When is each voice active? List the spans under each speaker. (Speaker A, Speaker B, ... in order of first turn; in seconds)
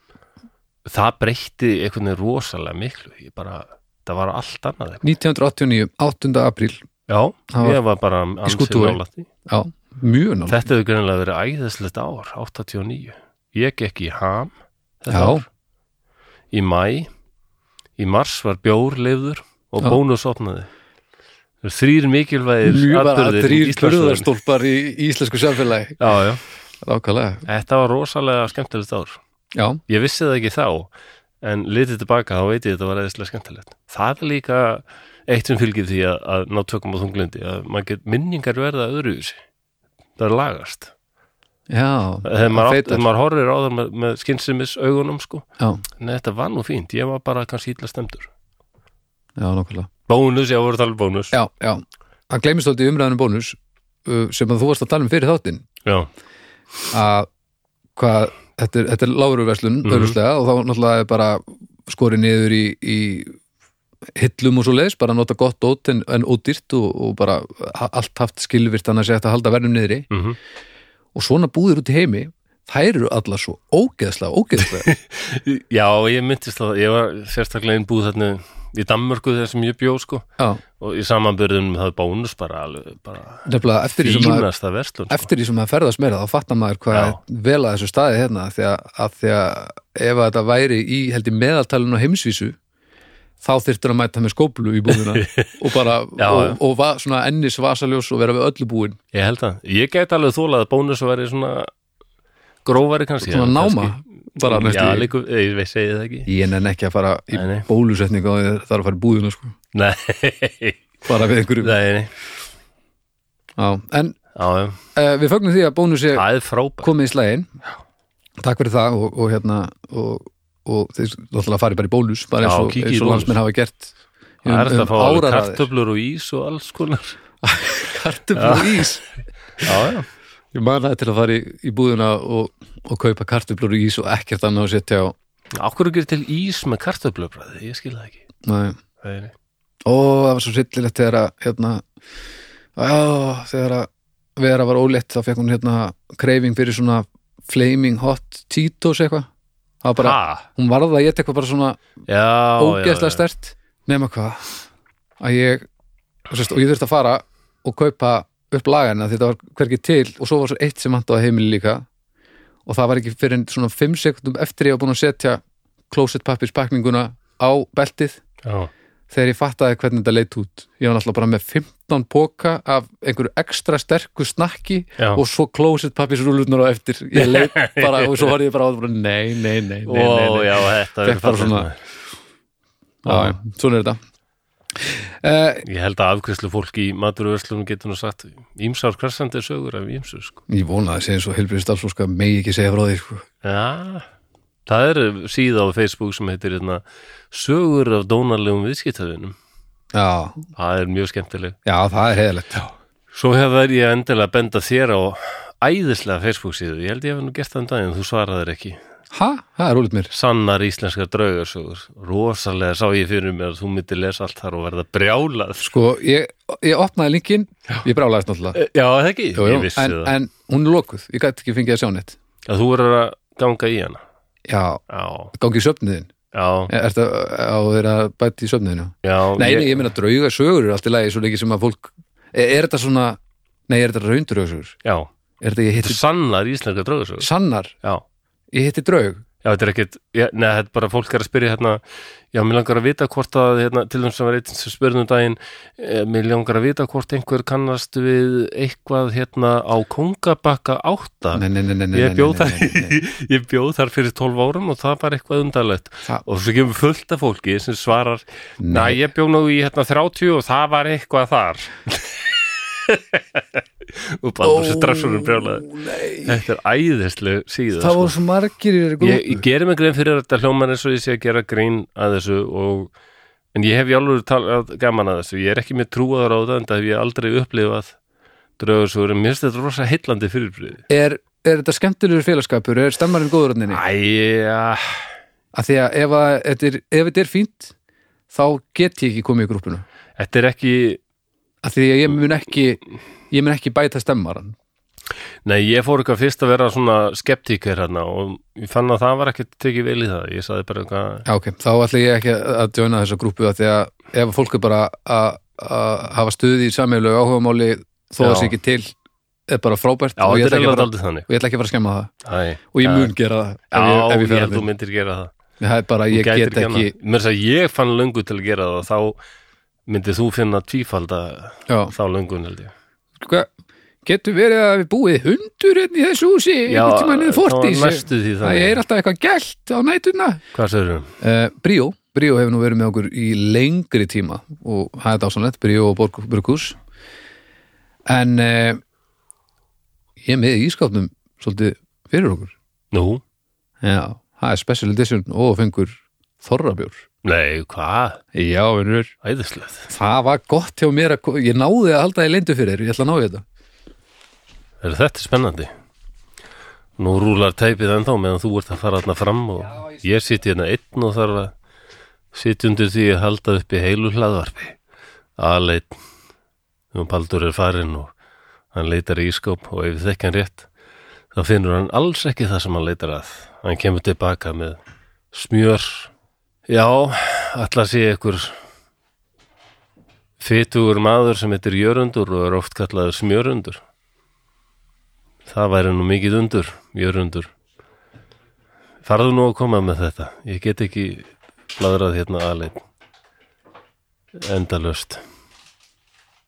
Speaker A: 0.9-5.1, 7.1-9.3, 10.5-15.5, 16.5-17.1, 18.0-20.7, 21.6-24.3, 26.0-26.4, 27.5-29.2, 29.9-30.9, 31.4-39.4, 40.2-40.9, 42.2-45.5, 46.0-48.3, 50.1-51.4, 59.9-60.2, 70.1-70.4, 74.6-80.3, 80.8-85.3, 86.9-87.2, 94.9-95.6, 96.2-96.6, 99.1-101.7, 102.7-106.3, 107.3-107.7, 109.7-110.9, 111.6-112.1, 114.3-114.8, 116.1-116.9, 122.4-123.4, 124.5-127.2, 128.4-128.8, 129.6-130.1, 135.6-138.2, 139.0-139.3, 150.0-150.5, 152.1-153.2, 168.4-168.7, 177.2-178.3, 179.9-181.8, 183.1-183.4, 185.6-190.4, 193.4-194.1, 194.7-199.4, 200.6-201.6, 203.1-208.8, 210.1-215.7, 218.6-220.1, 222.5-224.0, 224.9-225.3, 226.3-226.7, 229.0-229.9, 234.8-235.1, 235.8-237.3, 239.4-241.8, 242.3-268.1, 269.0-272.9, 273.5-278.0, 278.6-280.8, 283.7-285.0, 290.2-291.0, 295.4-301.3, 308.2-308.6, 310.2-311.3, 312.2-313.1, 313.7-315.3, 316.1-319.2, 319.9-322.7, 326.7-328.8, 330.5-331.1, 342.9-343.2, 347.2-348.2, 349.2-349.9, 354.8-355.7, 357.0-361.5, 362.3-364.8, 365.4-366.0, 366.9-368.1, 368.7-370.7, 371.3-374.8, 375.3-376.1, 376.7-378.6, 380.4-383.8, 385.5-387.5, 389.0-392.9, 394.4-395.2
Speaker B: 5.0-6.8, 7.5-7.8, 8.4-10.6, 15.1-15.4, 22.6-26.1, 26.8-27.4, 29.6-29.8, 41.7-43.0, 49.4-49.9, 51.3-55.7, 56.9-57.3, 58.0-63.4, 64.2-70.1, 71.2-74.9, 83.5-84.5, 85.1-92.6, 93.4-99.0, 103.3-105.1, 106.3-109.5, 111.0-111.8, 113.6-114.2, 115.0-116.3, 116.8-117.5, 118.4-125.6, 127.4-129.0, 130.5-135.2, 138.4-138.8, 139.9-141.8, 142.8-149.3, 149.8-151.8, 152.6-154.6, 155.2-155.7, 156.3-161.9, 162.7-168.2, 169.1-181.7, 183.0-184.0, 184.8-185.6, 190.5-193.2, 199.9-200.4, 201.7-202.7, 209.1-210.1, 215.6-218.6, 219.4-222.2, 224.5-224.8, 225.3-226.1, 226.7-234.8, 235.4-236.0, 237.2-237.8, 238.5-239.2, 251.3-252.9, 258.6-259.0, 264.4-266.4, 267.8-269.4, 280.9-283.8, 285.5-287.7, 288.3-289.8, 291.6-294.6, 301.3-308.9, 309.5-312.1, 312.7-314.7, 315.6-316.9, 321.7-321.9, 323.2-323.5, 324.1-330.4, 331.2-336.8, 338.1-338.8, 340.2-342.5, 343.8-347.0, 348.3-349.1, 349.9-353.4